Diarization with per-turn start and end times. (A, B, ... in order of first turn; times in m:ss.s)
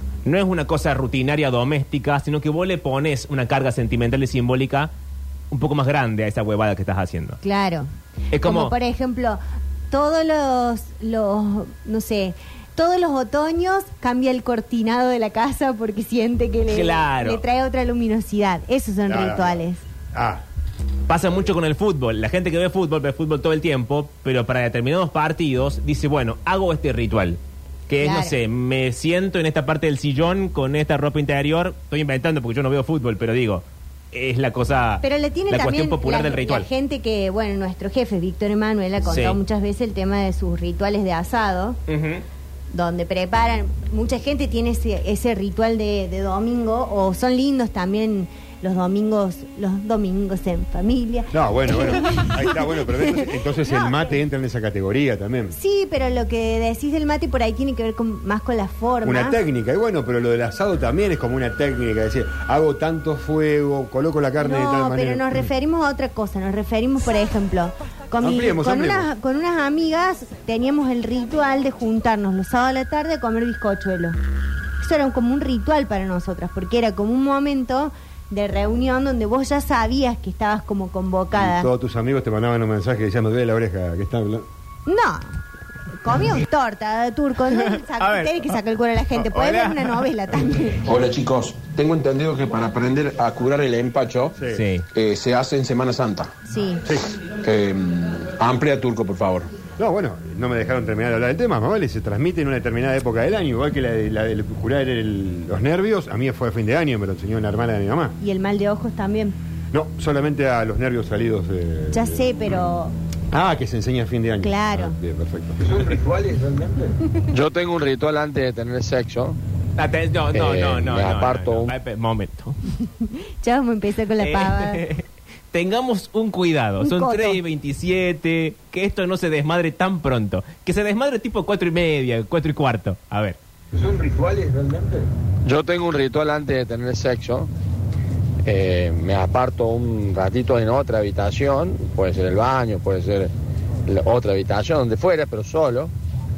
0:00.2-0:04.9 A
0:05.5-0:07.4 A
0:07.4-0:19.8 B
0:08.3-0:08.7 A
0:16.7-0:17.4 A
0:19.1-0:20.4 C
0:21.1-0:36.7 A
0:28.0-0:28.4 B
0:35.0-0:41.8 B
0:39.0-0:39.4 A
0:41.9-0:42.2 A
0:42.7-0:54.1 B
0:51.3-0:55.6 C
0:55.5-0:59.4 B
0:59.0-1:05.5 C
1:04.4-1:14.2 B
1:08.2-1:09.1 C
1:14.8-1:21.7 B
1:21.3-1:24.4 C
1:24.8-1:25.4 B
1:26.0-1:30.8 B
1:27.5-1:28.5 A
1:29.1-1:30.1 A
1:30.8-1:34.4 D
1:34.4-1:34.6 C
1:34.5-1:34.8 A
1:34.9-1:36.3 D
1:36.5-1:36.8 B
1:37.4-1:39.5 D
1:39.8-1:48.2 C
1:48.2-1:49.4 B
1:49.7-1:52.3 C
1:51.9-1:52.9 B
1:53.3-1:57.0 C
1:54.4-1:55.0 B
1:57.3-1:59.4 E
1:59.8-2:02.6 A
2:00.3-2:01.7 E
2:02.8-2:04.8 B
2:04.2-2:13.4 A
2:06.8-2:07.4 B
2:13.7-2:15.1 C
2:15.4-2:17.5 E
2:18.4-2:23.3 E
2:23.9-2:25.9 E